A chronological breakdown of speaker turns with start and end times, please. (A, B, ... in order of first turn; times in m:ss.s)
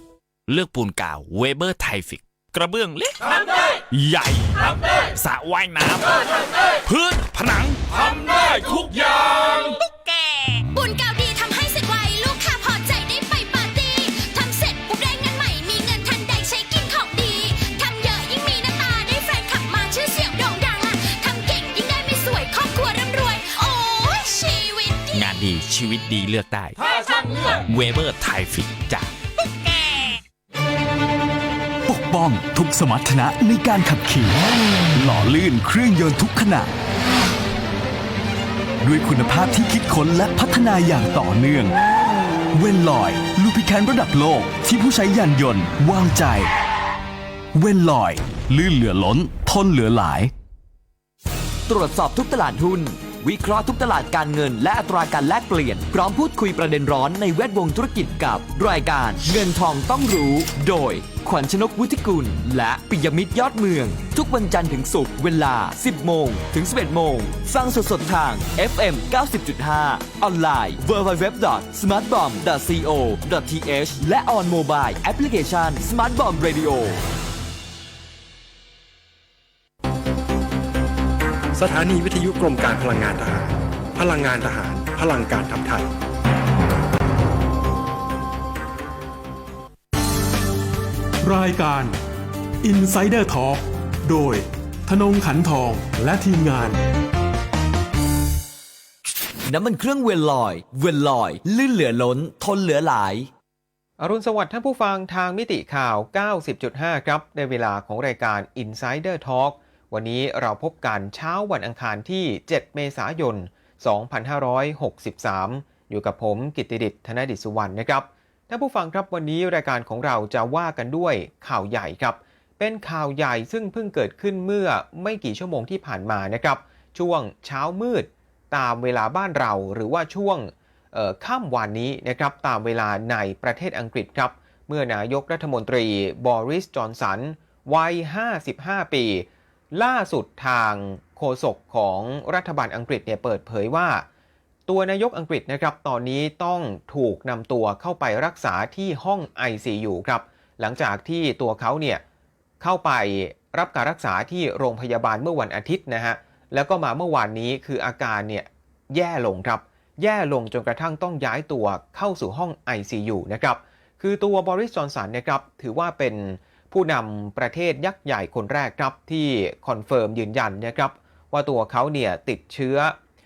0:00.5-0:10.6 A
0:10.7-0:25.3 B
0:25.1-0:30.2 A
0:31.9-0:36.7 C
0:38.8-0:41.8 C
0:42.5-0:46.5 C
0:47.5-0:50.3 C
0:51.7-1:17.0 D
1:21.6-1:25.9 E
1:31.2-1:32.0 F
1:32.6-1:36.8 F
1:39.5-1:43.3 D
1:44.0-2:24.1 G
2:24.7-2:32.0 G
2:32.6-2:53.0 G